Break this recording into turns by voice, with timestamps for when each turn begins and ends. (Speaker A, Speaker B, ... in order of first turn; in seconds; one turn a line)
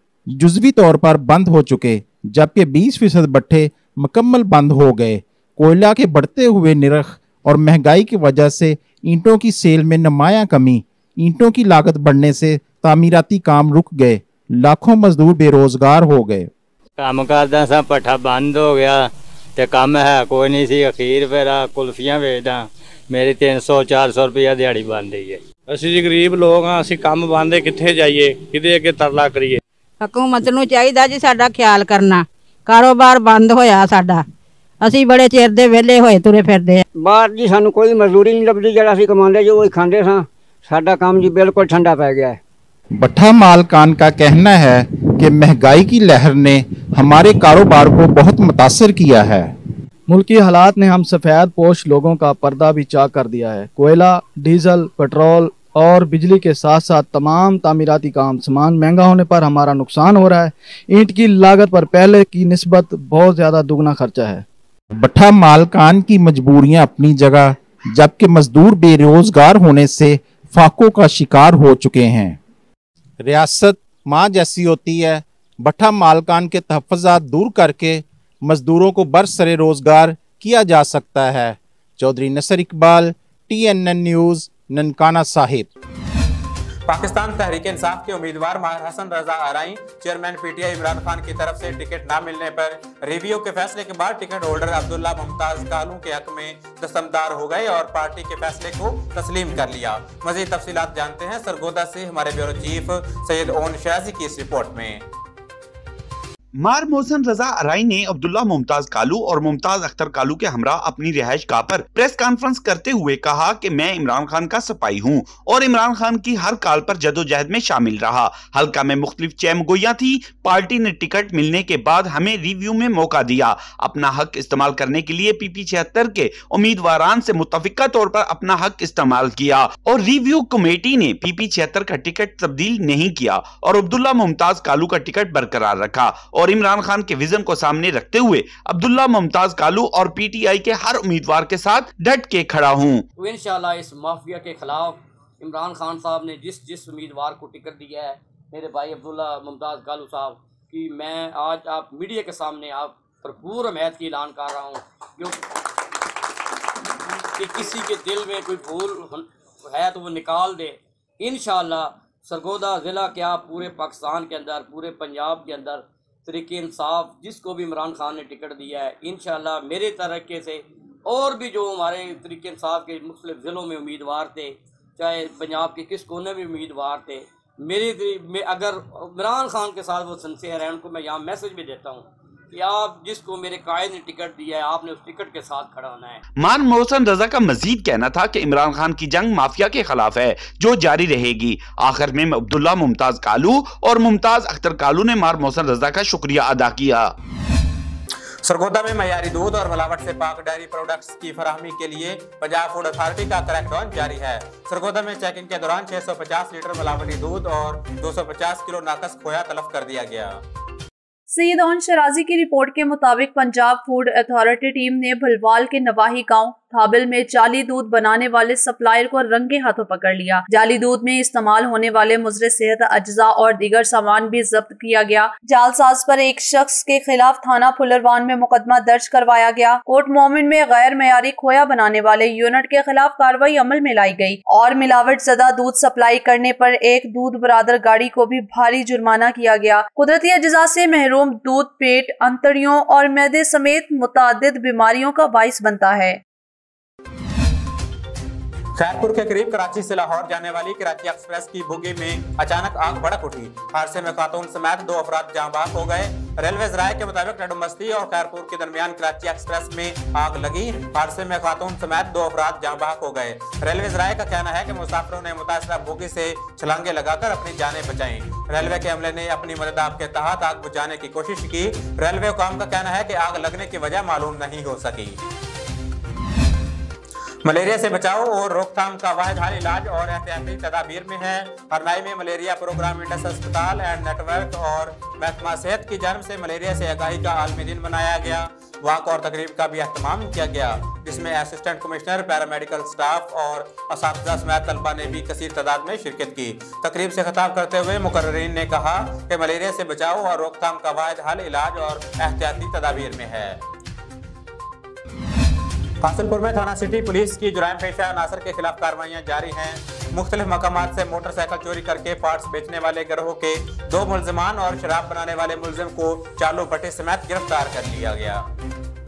Speaker A: 0.3-16.5
Speaker B: 17.0-19.0
Speaker B: 19.6-25.4
Speaker C: 25.7-29.6
Speaker D: 30.0-34.2
Speaker D: 34.8-36.8
Speaker E: 36.9-42.4
Speaker A: 43.0-49.5
Speaker F: 50.1-64.4
Speaker A: 65.0-72.4
Speaker A: 73.2-85.7
Speaker G: 86.9-105.0
Speaker H: 106.6-143.0
Speaker I: 143.2-155.4
Speaker I: 157.3-186.2
Speaker H: 186.4-197.1
Speaker G: 198.4-210.4
Speaker J: 211.3-246.2
Speaker G: 248.8-275.2
Speaker G: 277.4-303.6
Speaker G: 306.0-318.4